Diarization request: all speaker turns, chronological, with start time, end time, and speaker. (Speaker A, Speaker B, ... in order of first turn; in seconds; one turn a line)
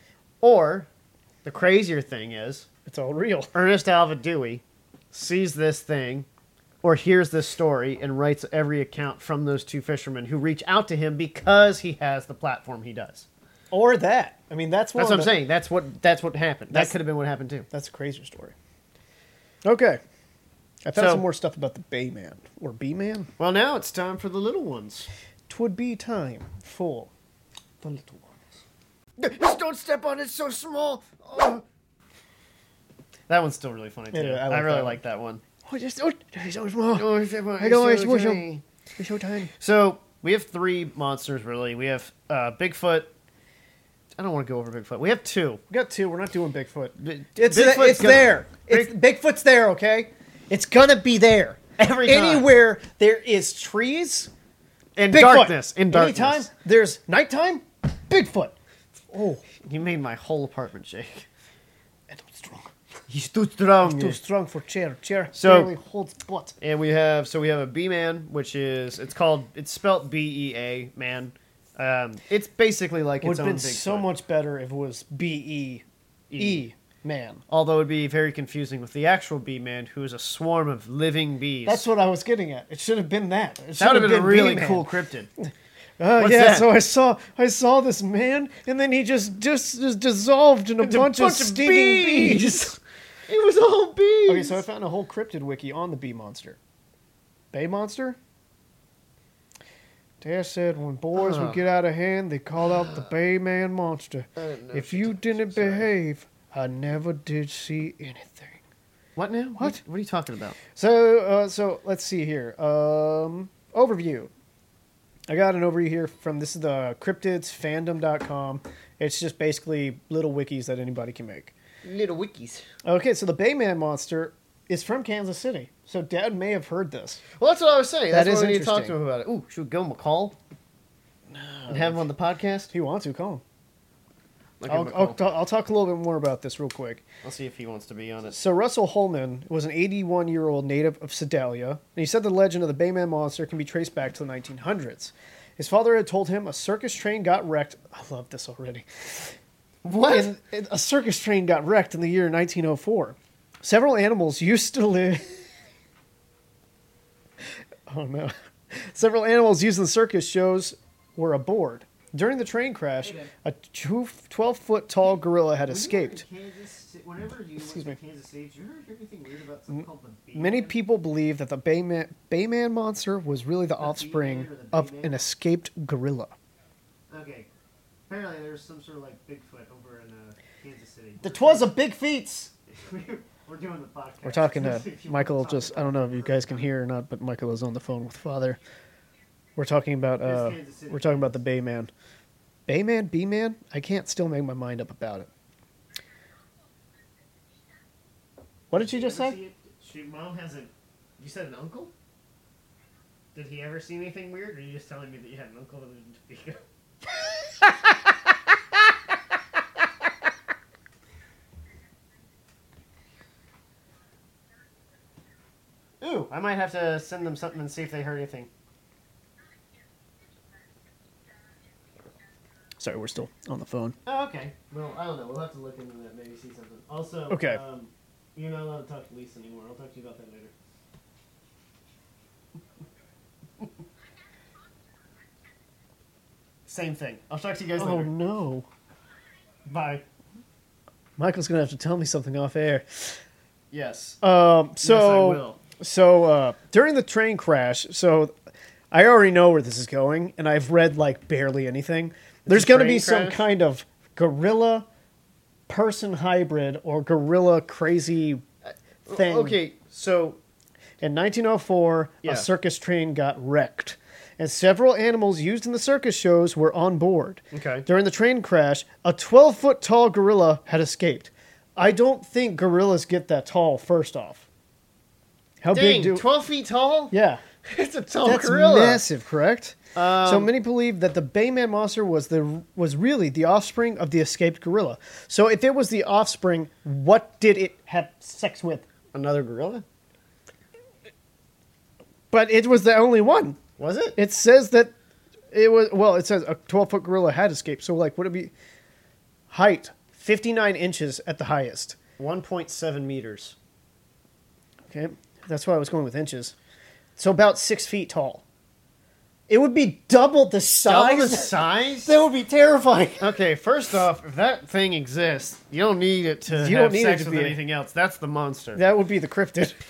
Speaker A: 0.4-0.9
Speaker A: 1.4-2.7
Speaker B: 2.9-3.5
Speaker A: 3.5-6.3
Speaker A: 6.8-13.3
Speaker B: 13.7-15.3
Speaker A: 14.9-17.7
Speaker B: 17.7-18.5
Speaker B: 19.6-20.0
Speaker B: 20.8-23.3
Speaker A: 20.9-21.2
Speaker A: 23.4-25.1
Speaker B: 25.5-27.1
Speaker B: 27.8-28.4
Speaker B: 29.2-31.6
Speaker A: 33.3-35.4
Speaker B: 34.1-35.0
Speaker B: 35.6-38.4
Speaker A: 36.9-38.6
Speaker B: 39.0-39.5
Speaker A: 39.6-43.1
Speaker A: 44.2-45.6
Speaker B: 45.7-54.3
Speaker A: 47.0-48.9
Speaker A: 51.8-52.5
Speaker A: 55.0-56.5
Speaker B: 55.1-58.5
Speaker B: 59.1-59.4
Speaker A: 59.6-61.3
Speaker B: 62.1-62.7
Speaker A: 63.1-64.2
Speaker B: 63.8-66.5
Speaker A: 65.3-65.7
Speaker A: 66.6-74.1
Speaker B: 73.2-75.8
Speaker A: 76.3-76.6
Speaker B: 76.4-77.4
Speaker A: 77.5-81.8
Speaker B: 81.7-84.9
Speaker A: 83.8-85.3
Speaker B: 86.0-92.8
Speaker A: 86.2-86.7
Speaker A: 90.8-94.6
Speaker B: 94.3-96.6
Speaker B: 97.5-98.2
Speaker B: 100.2-108.6
Speaker A: 101.2-101.6
Speaker A: 102.7-103.1
Speaker A: 104.4-105.9
Speaker A: 109.2-110.6
Speaker B: 110.7-114.3
Speaker B: 115.3-121.5
Speaker A: 121.8-122.6
Speaker B: 122.8-127.2
Speaker A: 127.4-130.4
Speaker B: 128.1-128.9
Speaker B: 131.3-132.1
Speaker A: 131.7-132.7
Speaker B: 132.7-133.4
Speaker A: 134.6-135.2
Speaker B: 134.7-137.0
Speaker A: 137.2-138.4
Speaker B: 138.3-149.3
Speaker A: 149.8-150.3
Speaker B: 150.1-155.4
Speaker B: 157.9-166.2
Speaker A: 165.6-170.8
Speaker B: 167.6-168.0
Speaker B: 170.3-176.3
Speaker A: 173.8-175.2
Speaker A: 177.1-177.5
Speaker A: 178.1-181.7
Speaker B: 181.2-182.5
Speaker A: 182.7-186.7
Speaker B: 184.2-188.6
Speaker B: 189.6-191.9
Speaker A: 190.2-191.4
Speaker B: 192.7-195.3
Speaker B: 198.7-199.4
Speaker A: 198.7-201.9
Speaker A: 203.3-206.6
Speaker A: 216.0-218.5
Speaker B: 222.8-223.9
Speaker A: 224.1-230.5
Speaker B: 227.3-227.6
Speaker A: 236.7-238.1
Speaker B: 237.8-238.7
Speaker A: 239.7-240.0
Speaker B: 241.2-243.2
Speaker A: 243.7-244.2
Speaker B: 244.2-248.3
Speaker A: 244.8-245.6
Speaker B: 248.9-254.9
Speaker A: 252.4-253.4
Speaker B: 255.7-258.4
Speaker A: 258.6-260.4
Speaker B: 259.1-259.6
Speaker B: 261.0-274.5
Speaker A: 267.5-267.9
Speaker B: 275.6-276.2
Speaker A: 275.7-279.0
Speaker B: 277.1-277.4
Speaker B: 278.2-288.9
Speaker A: 279.9-280.5
Speaker A: 289.1-289.8
Speaker B: 292.3-293.6
Speaker A: 293.8-294.2
Speaker B: 294.1-294.9
Speaker B: 295.5-298.5
Speaker B: 299.5-302.0
Speaker A: 302.2-303.6
Speaker B: 304.9-306.5
Speaker B: 307.2-308.4
Speaker B: 309.5-313.4
Speaker A: 310.8-312.2
Speaker A: 313.2-318.8
Speaker B: 316.5-317.6
Speaker B: 318.8-319.8